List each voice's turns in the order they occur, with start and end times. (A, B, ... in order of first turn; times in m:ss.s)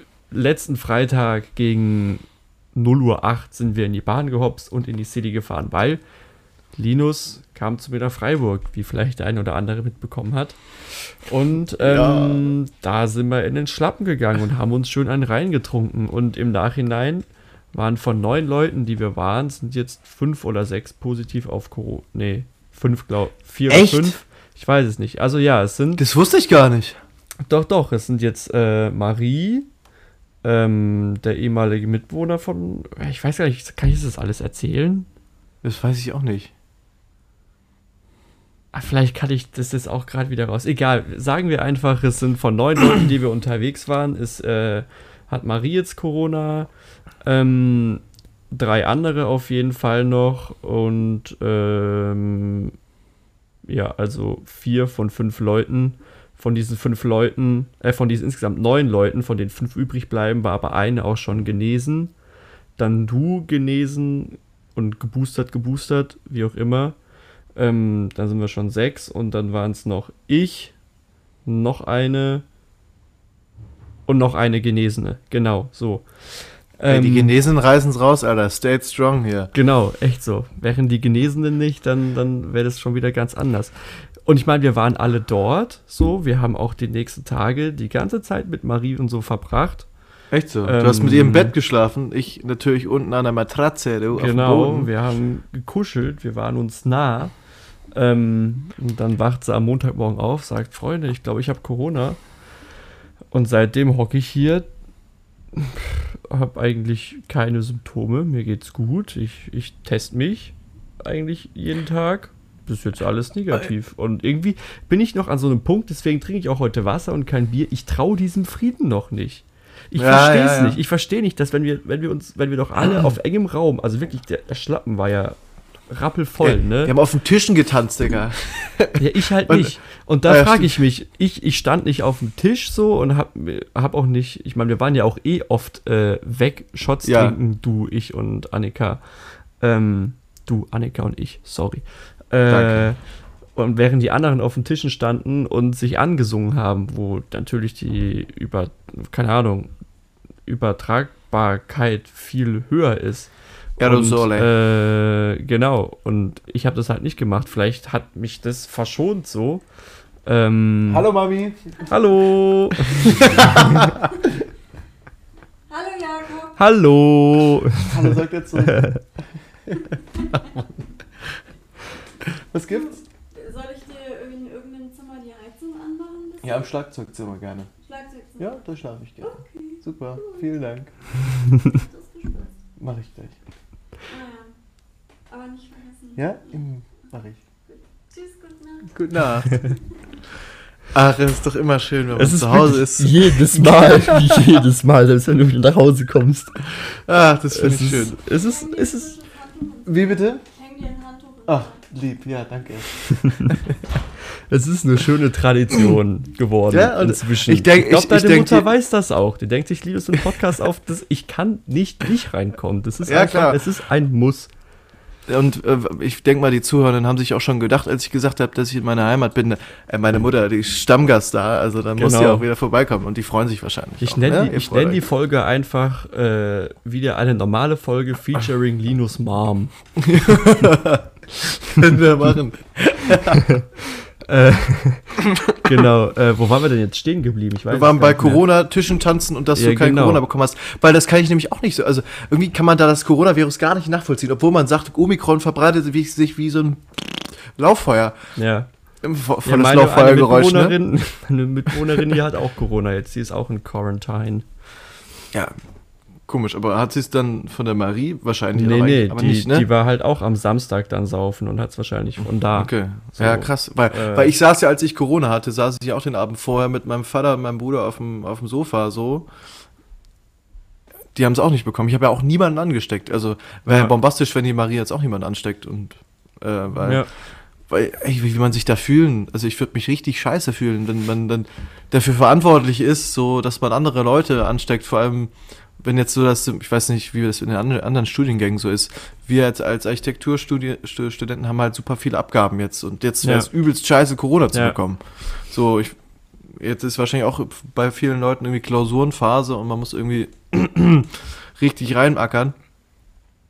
0:00.3-0:06.0 A
0:06.7-0:26.0 A
0:11.8-0:12.5 B
0:23.7-0:24.2 B
0:26.0-0:27.0 B
0:27.4-0:29.7 A
0:30.4-0:35.1 A
0:35.6-0:36.5 B
0:38.7-0:46.7 A
0:47.2-0:52.7 A
0:53.6-1:02.1 A
1:02.8-1:07.0 A
1:07.5-1:10.8 A
1:11.4-1:12.4 A
1:14.0-1:17.4 A
1:16.9-1:19.5 B
1:19.5-1:29.9 A
1:30.3-1:34.9 B
1:30.6-1:31.5 A
1:34.1-1:42.2 A
1:43.3-1:44.7 A
1:45.5-2:06.9 A
2:00.0-2:00.8 B
2:06.4-2:09.7 B
2:09.0-2:29.7 A
2:10.3-2:10.8 B
2:17.0-2:17.4 B
2:22.5-2:22.8 B
2:30.4-2:39.6 A
2:33.8-2:34.5 B
2:40.2-2:41.0 A
2:40.9-2:41.9 B
2:41.9-2:43.8 A
2:42.8-2:44.1 B
2:45.7-2:46.6 C
2:46.6-2:49.0 A
2:47.8-2:48.9 B
2:49.6-2:50.0 B
2:52.3-2:53.0 B
2:53.3-2:56.5 C
2:56.4-2:57.7 B
2:57.8-2:58.5 C
2:58.4-3:01.0 B
2:59.2-3:00.4 C
3:01.6-3:02.5 C
3:02.8-3:03.4 B
3:04.1-3:04.5 C
3:05.3-3:06.4 C
3:06.2-3:07.4 B
3:08.1-3:09.7 C
3:08.9-3:09.7 B
3:10.9-3:14.5 B
3:12.1-3:17.0 A
3:17.0-3:18.2 B
3:17.5-3:19.2 A
3:18.3-3:21.8 C
3:19.9-3:20.4 B
3:21.5-3:23.9 B
3:24.5-3:34.5 A
3:26.7-3:28.7 B
3:33.0-3:33.6 B
3:35.3-3:45.0 B
3:42.0-3:42.4 A
3:44.0-3:49.7 A
3:50.0-3:51.1 B
3:51.8-3:53.4 B
3:53.5-3:58.4 A
3:57.7-4:08.2 B
3:59.5-4:00.2 A
4:08.4-4:08.7 A
4:09.0-4:10.8 B
4:09.4-4:14.5 A
4:11.8-4:12.1 B
4:16.2-4:19.7 B
4:18.5-4:24.3 A
4:22.5-4:29.3 B
4:31.1-5:02.5 B
4:33.7-4:33.9 A
4:36.8-4:37.1 A
4:53.2-4:53.5 A
4:54.5-4:54.8 A